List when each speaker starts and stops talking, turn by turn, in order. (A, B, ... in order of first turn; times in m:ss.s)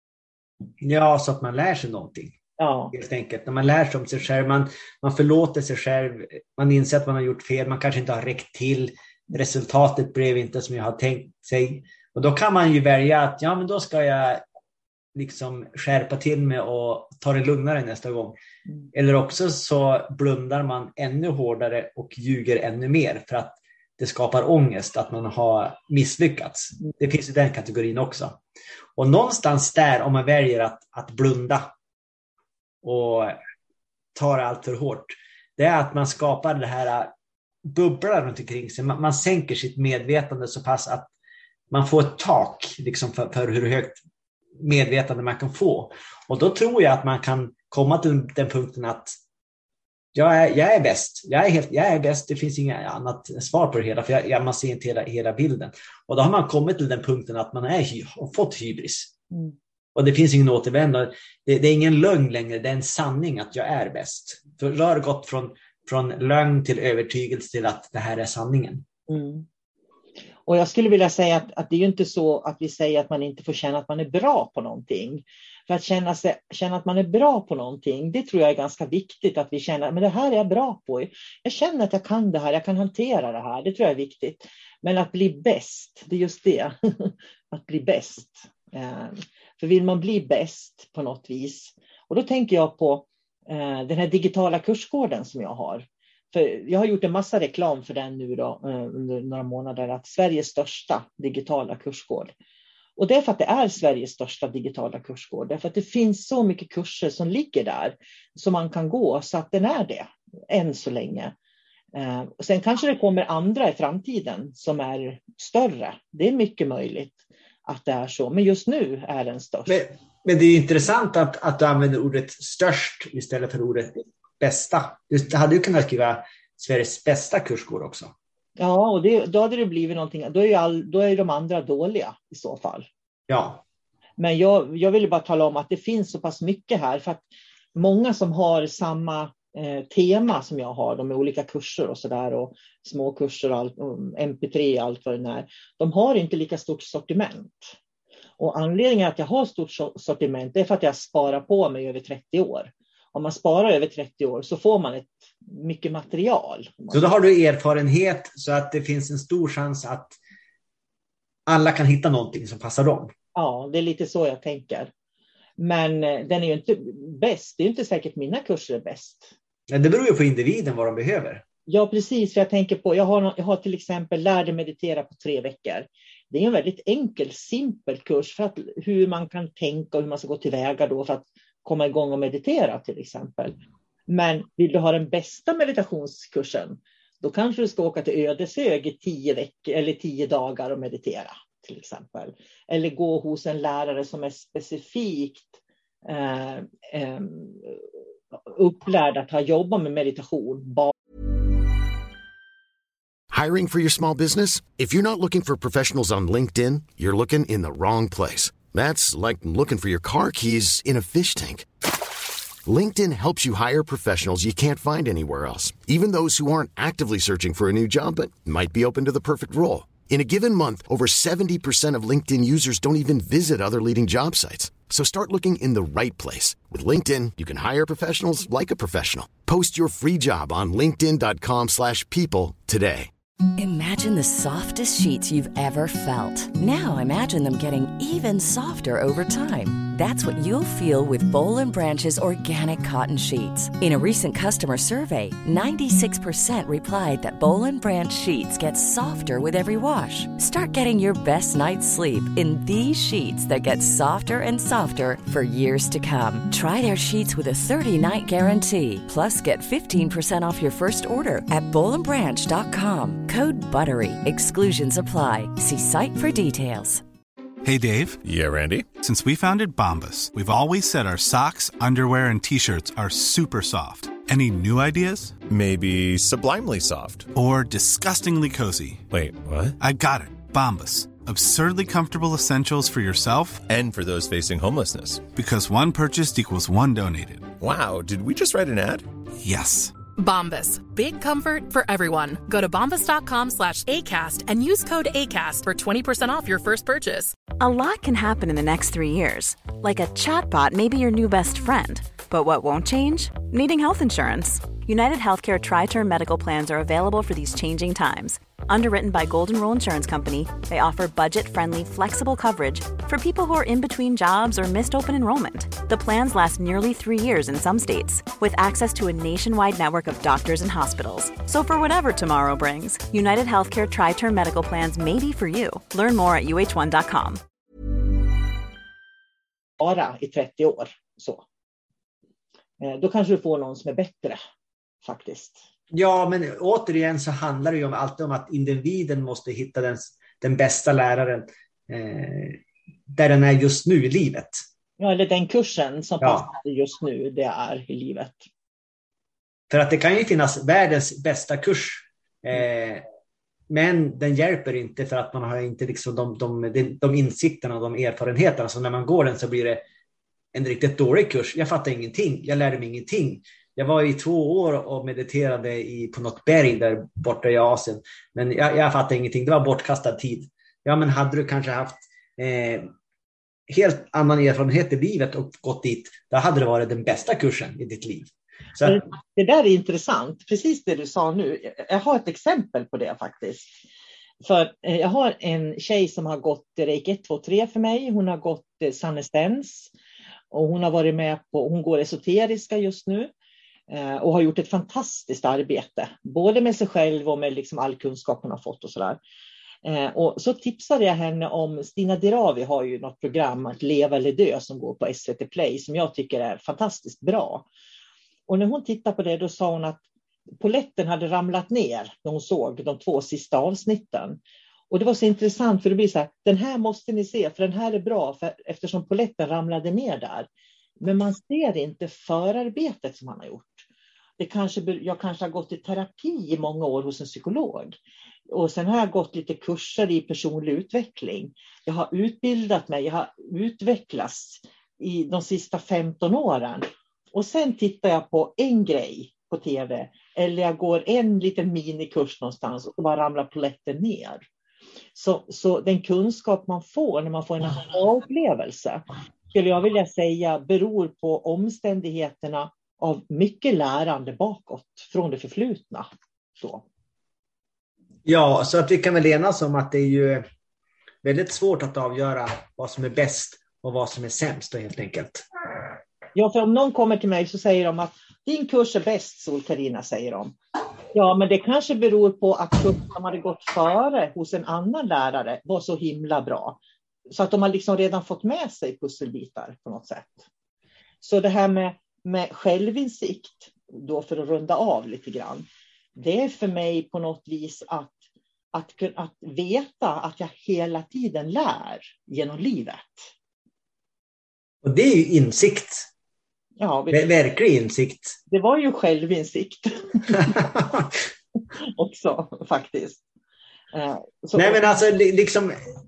0:00.8-0:02.4 A
0:02.6-0:02.9 B
0:02.9-0:14.4 A
0:15.1-0:18.4 A
0:18.9-0:28.4 A
0:29.0-0:31.7 A
0:32.8-0:33.4 A
0:34.1-0:37.1 A
0:37.7-0:41.1 A
0:41.7-0:44.0 A
0:44.6-0:49.2 A
0:50.1-0:59.1 A
0:59.3-0:59.6 B
0:59.9-1:08.8 A
1:09.1-1:09.5 B
1:10.4-1:42.3 B
1:43.0-1:51.3 B
1:51.9-1:59.8 B
1:59.7-2:08.1 A
2:08.6-2:12.9 B
2:13.3-2:13.6 A
2:14.2-2:27.8 B
2:28.4-2:37.1 B
2:36.9-2:40.2 A
2:41.5-2:43.1 A
2:43.3-2:44.9 B
2:45.6-2:49.3 B
2:49.7-2:51.4 A
2:51.7-3:03.6 B
3:04.1-3:17.8 B
3:18.5-3:20.9 B
3:23.3-3:31.7 C
3:32.6-3:53.1 C
3:53.6-4:27.0 D
4:27.6-4:28.2 E
4:28.2-4:28.9 F
4:29.0-4:35.4 E
4:35.5-4:37.3 F
4:37.3-4:39.0 E
4:39.1-4:39.8 F
4:39.8-4:43.6 E
4:43.7-4:45.3 F
4:45.3-4:47.5 E
4:47.6-4:49.1 F
4:49.4-4:49.9 E
4:50.2-4:57.3 G
4:57.6-5:27.4 H
5:29.8-5:31.4 B
5:32.8-5:34.4 B
5:35.0-5:35.6 B
5:35.9-5:44.6 A
5:45.0-5:48.4 B
5:46.2-5:46.5 A
5:49.7-5:53.0 A
5:53.7-5:59.8 A
6:00.5-6:12.9 A
6:13.7-6:19.0 A
6:18.8-6:23.8 B
6:24.4-6:29.9 B
6:30.5-6:33.3 B
6:33.9-6:39.2 B
6:39.8-6:47.6 B
6:48.5-6:50.0 B
6:50.6-6:54.4 B
6:54.9-7:00.5 B
7:01.0-7:03.9 B
7:04.4-7:08.0 B
7:08.5-7:24.4 B
7:25.1-7:36.8 B
7:38.2-7:40.4 A
7:41.2-7:45.4 A
7:46.3-7:50.5 B
7:51.1-7:56.8 B
7:57.3-8:00.4 B
8:01.2-8:08.2 B
8:08.7-8:13.3 B
8:14.8-8:16.1 A
8:16.8-8:17.2 B
8:17.1-8:18.4 A
8:18.5-8:20.5 B
8:20.4-8:21.0 A
8:21.8-8:23.2 B
8:23.9-8:24.9 B
8:24.6-8:25.8 A